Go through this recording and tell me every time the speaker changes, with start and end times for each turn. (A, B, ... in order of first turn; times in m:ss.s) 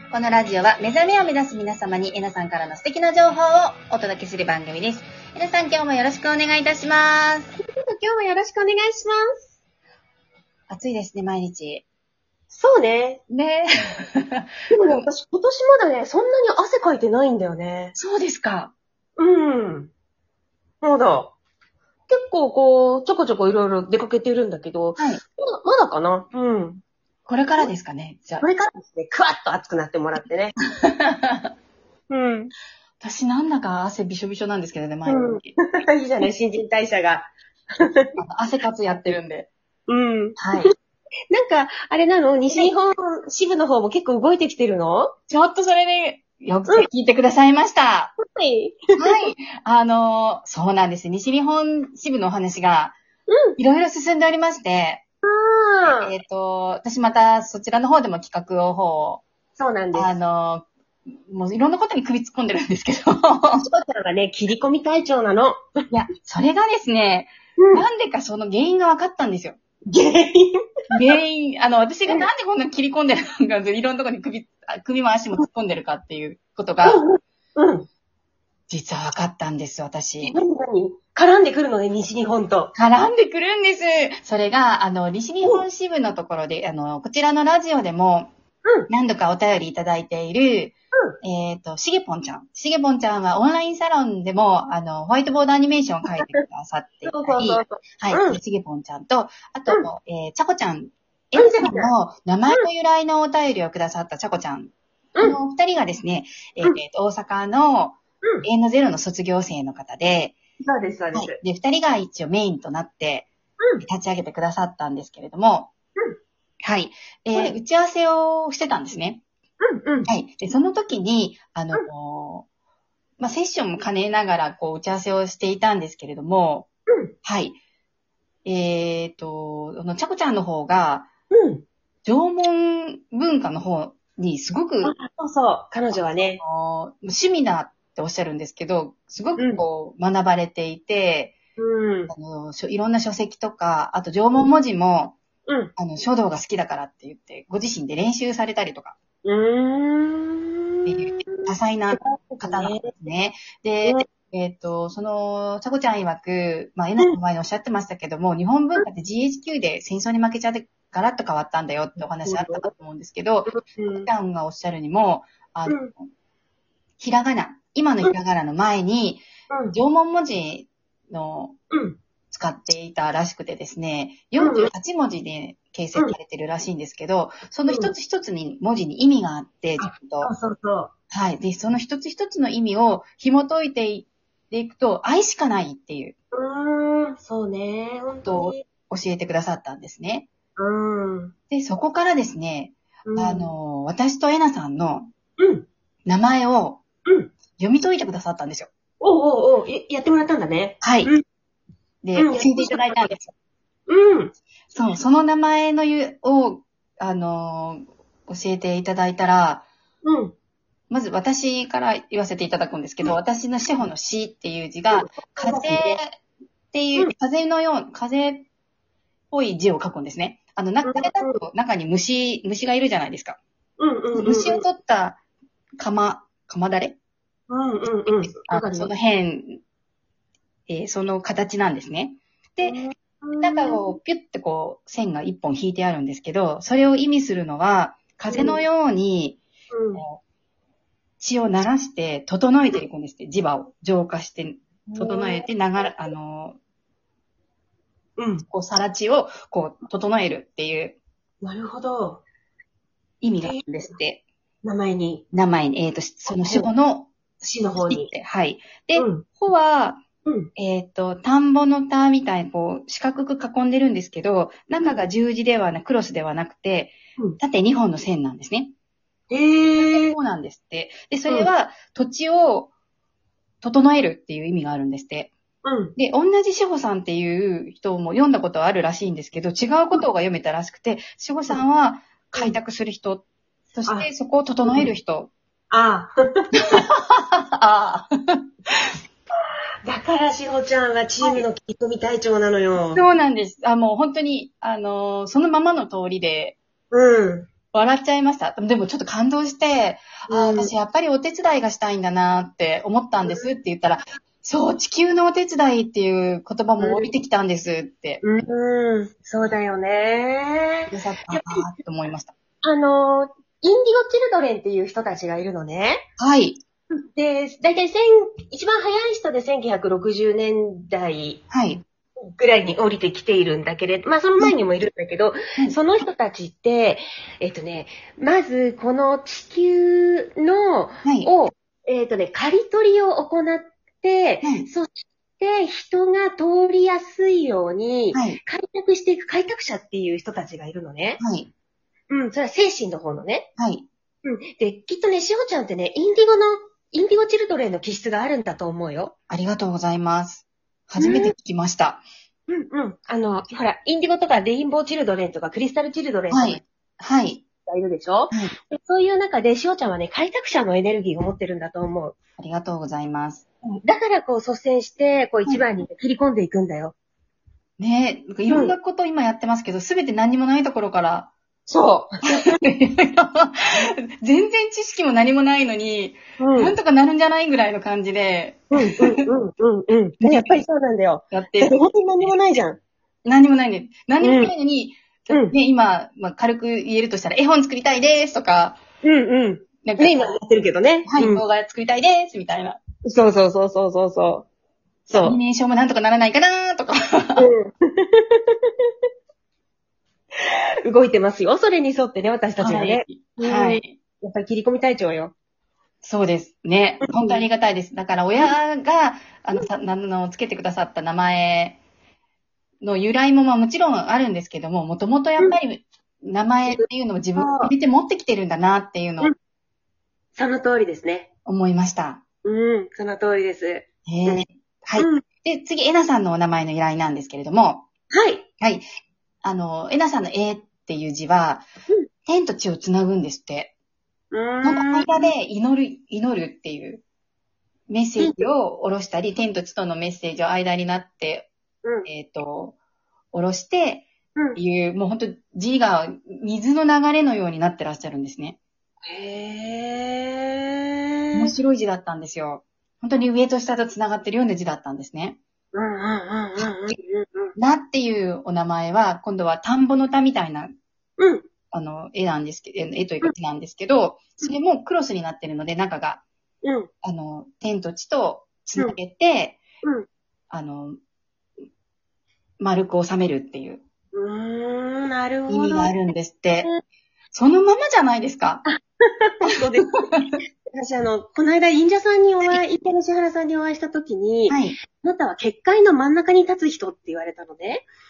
0:00.1-0:07.5 A
0:07.6-0:09.4 B
0:10.7-0:11.8 A
0:12.5-0:13.2 B
0:13.3-0:15.0 A
0:14.7-0:17.9 B
0:17.9-0:18.7 A
0:19.2-0:19.9 B
0:20.8-0:21.3 B
0:22.1-0:26.8 B
0:25.0-0:25.2 A
0:27.3-0:28.4 A
0:28.4-0:30.6 B
0:30.8-0:31.5 A
0:32.1-0:32.5 B
0:33.0-0:35.6 A
0:35.0-0:38.1 B
0:38.2-0:39.5 A
0:39.9-0:40.7 B
0:40.4-0:40.7 A
0:41.3-0:45.1 B
0:45.3-0:48.1 A
0:48.2-0:49.2 B
0:49.0-0:53.0 A
0:53.3-0:53.6 B
0:53.6-0:55.0 A
0:55.2-0:56.1 B
0:55.8-0:59.2 A
0:59.6-1:00.1 B
0:59.9-1:00.7 A
1:01.3-1:03.6 A
1:03.6-1:05.6 B
1:05.9-1:09.6 A
1:07.6-1:07.8 B
1:09.9-1:10.6 B
1:10.9-1:17.0 A
1:16.8-1:17.9 B
1:18.7-1:20.3 A
1:20.2-1:22.7 B
1:22.7-1:28.3 A
1:28.9-1:50.3 A
1:37.0-1:38.4 B
1:41.4-1:41.9 B
1:50.6-1:51.4 B
1:51.1-1:53.3 A
1:53.6-1:53.8 B
1:53.8-1:55.7 A
1:56.6-1:59.2 A
1:59.6-2:00.1 B
2:00.1-2:02.5 A
2:03.2-2:06.7 A
2:07.2-2:07.6 A
2:08.4-2:11.1 A
2:11.3-2:11.6 B
2:12.0-2:14.9 A
2:14.8-2:16.4 B
2:15.9-2:21.4 A
2:19.4-2:19.6 B
2:21.6-2:22.1 B
2:22.1-2:25.2 A
2:25.4-2:25.7 B
2:25.8-2:29.0 A
2:29.2-2:32.9 B
2:30.8-2:46.0 A
2:42.2-2:42.7 B
2:43.5-2:44.1 B
2:45.7-2:45.9 B
2:47.0-2:51.6 A
2:49.5-2:49.8 B
2:51.7-2:52.0 B
2:52.3-3:00.3 A
2:54.4-2:54.7 B
2:57.7-2:57.9 B
2:59.8-3:00.9 B
3:01.1-3:06.1 A
3:06.3-3:08.6 B
3:08.2-3:10.3 A
3:10.6-3:11.3 B
3:11.5-3:15.1 A
3:13.0-3:13.5 B
3:15.4-3:15.7 B
3:16.0-3:16.8 A
3:17.0-3:17.3 B
3:17.6-3:18.7 A
3:19.0-3:21.2 B
3:20.8-3:21.1 A
3:22.0-3:23.3 A
3:22.2-3:23.2 B
3:23.9-3:24.3 B
3:24.7-3:29.6 A
3:30.0-3:30.3 B
3:30.9-3:36.2 A
3:34.9-3:36.0 B
3:36.7-3:38.5 A
3:39.3-3:43.4 A
3:40.8-3:41.4 B
3:43.8-3:44.6 B
3:44.1-3:45.2 A
3:45.8-3:47.0 A
3:47.5-3:48.9 B
3:48.2-3:49.6 A
3:50.7-3:52.8 A
3:52.6-3:53.8 B
3:53.4-3:59.4 A
3:58.3-3:58.6 B
3:59.7-4:00.0 B
3:59.9-4:00.2 A
4:01.2-4:06.6 A
4:04.9-4:05.4 B
4:08.2-4:08.4 B
4:08.5-4:11.0 A
4:11.4-4:12.2 B
4:13.2-4:14.2 A
4:14.6-4:15.2 B
4:15.3-4:17.1 A
4:16.3-4:16.7 B
4:17.4-4:18.1 B
4:17.8-4:20.0 A
4:19.0-4:19.3 B
4:20.2-4:20.5 B
4:20.6-4:28.7 A
4:29.3-4:30.2 B
4:29.8-4:32.7 A
4:33.6-4:35.3 A
4:35.6-4:35.9 B
4:36.0-4:45.3 A
4:45.7-4:46.5 B
4:46.7-4:48.7 A
4:49.8-4:53.0 B
4:52.9-4:56.6 A
4:56.9-4:57.5 B
4:57.7-5:08.2 A
5:00.3-5:00.7 B
5:03.2-5:03.5 B
5:06.8-5:07.1 B
5:08.2-5:11.7 B
5:10.9-5:12.3 A
5:12.6-5:16.0 B
5:16.2-5:16.6 A
5:17.1-5:21.4 B
5:21.5-5:21.8 A
5:22.2-5:41.2 B
5:31.0-5:31.3 A
5:34.4-5:34.7 A
5:38.1-5:38.4 A
5:41.2-5:41.5 A
5:42.1-5:43.5 B
5:43.6-5:43.8 A
5:44.2-5:49.1 B
5:49.3-5:52.0 A
5:51.0-5:51.3 B
5:52.5-5:56.6 B
5:56.3-5:57.4 A
5:57.6-6:02.2 B
6:02.4-6:03.4 A
6:03.7-6:06.9 B
6:07.8-6:11.3 A
6:08.5-6:08.8 B
6:11.7-6:12.5 B
6:12.2-6:19.2 A
6:16.4-6:16.7 B
6:18.7-6:22.8 B
6:20.2-6:20.6 A
6:21.3-6:22.4 A
6:23.2-6:28.8 A
6:24.2-6:24.5 B
6:25.3-6:25.5 B
6:29.0-6:31.4 B
6:29.8-6:30.3 A
6:31.0-6:32.8 A
6:33.0-6:34.5 B
6:35.1-6:37.5 A
6:35.1-6:35.4 B
6:37.4-6:38.6 B
6:40.4-6:45.3 B
6:42.6-6:44.0 A
6:46.0-6:51.8 A
6:47.0-6:47.4 B
6:52.8-6:59.3 A
6:56.7-6:57.7 B
7:00.3-7:01.3 B
7:01.4-7:02.2 A
7:02.4-7:04.4 B
7:04.0-7:07.9 A
7:05.0-7:05.2 B
7:08.1-7:08.4 B
7:09.4-7:11.6 A
7:12.3-7:13.7 A
7:14.3-7:15.3 B
7:14.6-7:17.0 A
7:17.9-7:21.5 A
7:18.2-7:18.5 B
7:22.0-7:22.8 A
7:23.3-7:28.6 A
7:29.0-7:31.5 B
7:31.3-7:35.4 A
7:35.7-7:37.5 B
7:36.6-7:36.9 A
7:37.5-7:40.7 A
7:41.2-7:41.5 B
7:41.7-7:46.2 A
7:46.6-7:46.9 B
7:47.0-7:49.6 A
7:50.5-7:51.0 A
7:52.6-7:53.8 A
7:54.1-7:55.9 B
7:55.5-7:56.7 A
7:57.3-7:58.6 A
7:58.6-8:00.1 B
8:00.7-8:07.9 B
8:04.5-8:04.8 A